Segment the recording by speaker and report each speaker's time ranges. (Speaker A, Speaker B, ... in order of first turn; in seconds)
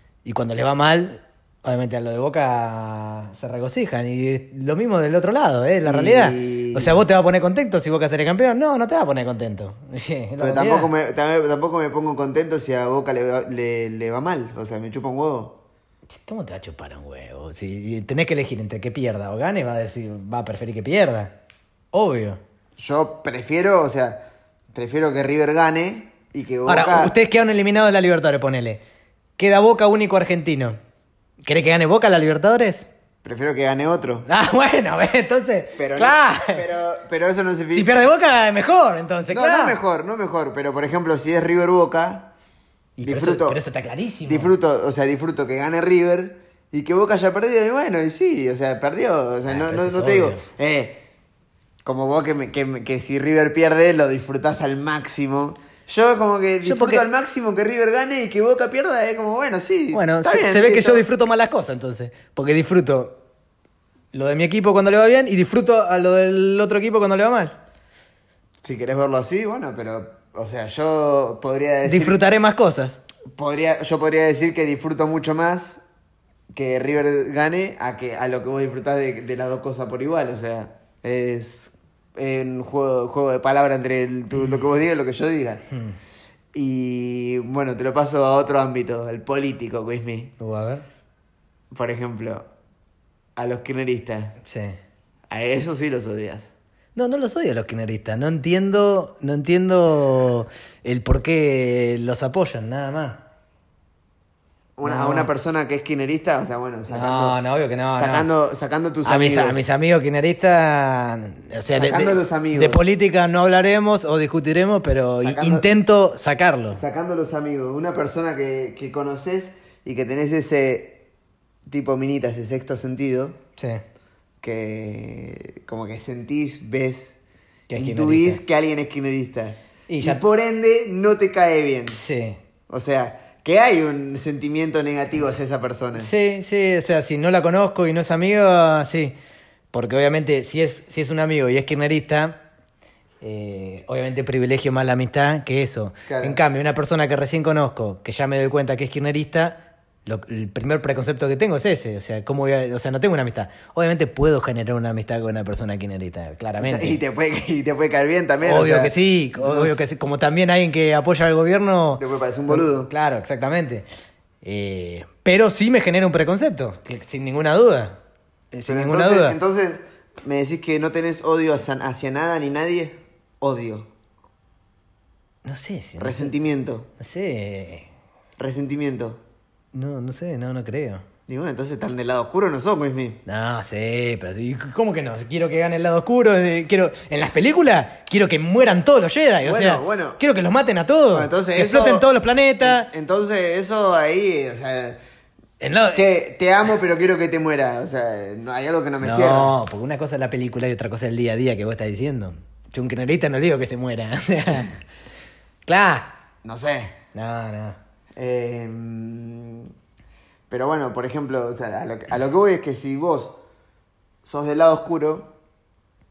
Speaker A: 0.2-10.9, 16.1-21.3, 21.9-22.4, 26.7-28.8, 29.4-30.8, 31.4-32.9, 34.2-36.6, 37.7-39.8, 43.0-44.5, 49.5-50.5, 56.6-57.0, 59.9-63.2, 64.1-67.5, 71.8-73.0, 90.4-90.8, 94.4-94.8, 97.0-103.2, 104.8-105.3, 106.9-108.3, 109.0-116.8, 127.7-128.4, 129.9-130.2, 131.9-132.4, 135.9-139.1, 139.7-142.4, 143.2-157.0, 158.4-163.8, 164.4-168.0, 168.5-169.4, 175.4-176.3, 177.0-177.9, 179.7-181.0, 183.2-192.9, 195.6-196.1, 199.0-204.8, 205.7-206.1, 207.1-207.8
Speaker B: 5.8-7.0, 10.4-15.6, 22.8-27.1, 33.2-34.3, 35.8-37.9, 39.3-42.3, 43.0-43.6, 44.3-51.0, 51.8-61.0, 68.6-72.2, 73.3-75.8, 76.5-85.6, 86.5-90.3, 91.7-92.5, 93.3-94.3, 95.3-96.5, 104.8-107.4, 107.9-109.6, 111.7-112.8, 115.2-115.7, 116.7-121.0, 121.7-123.4, 124.4-127.1, 127.7-132.0, 132.7-136.1, 146.1-146.4, 156.6-159.8, 162.0-162.9, 168.7-173.9, 176.0-176.9, 178.4-179.2, 181.3-183.2, 189.4-190.2, 191.1-192.1, 192.6-195.0, 195.9-199.5, 206.4-207.0, 208.2-209.7, 210.5-213.4, 214.2-215.3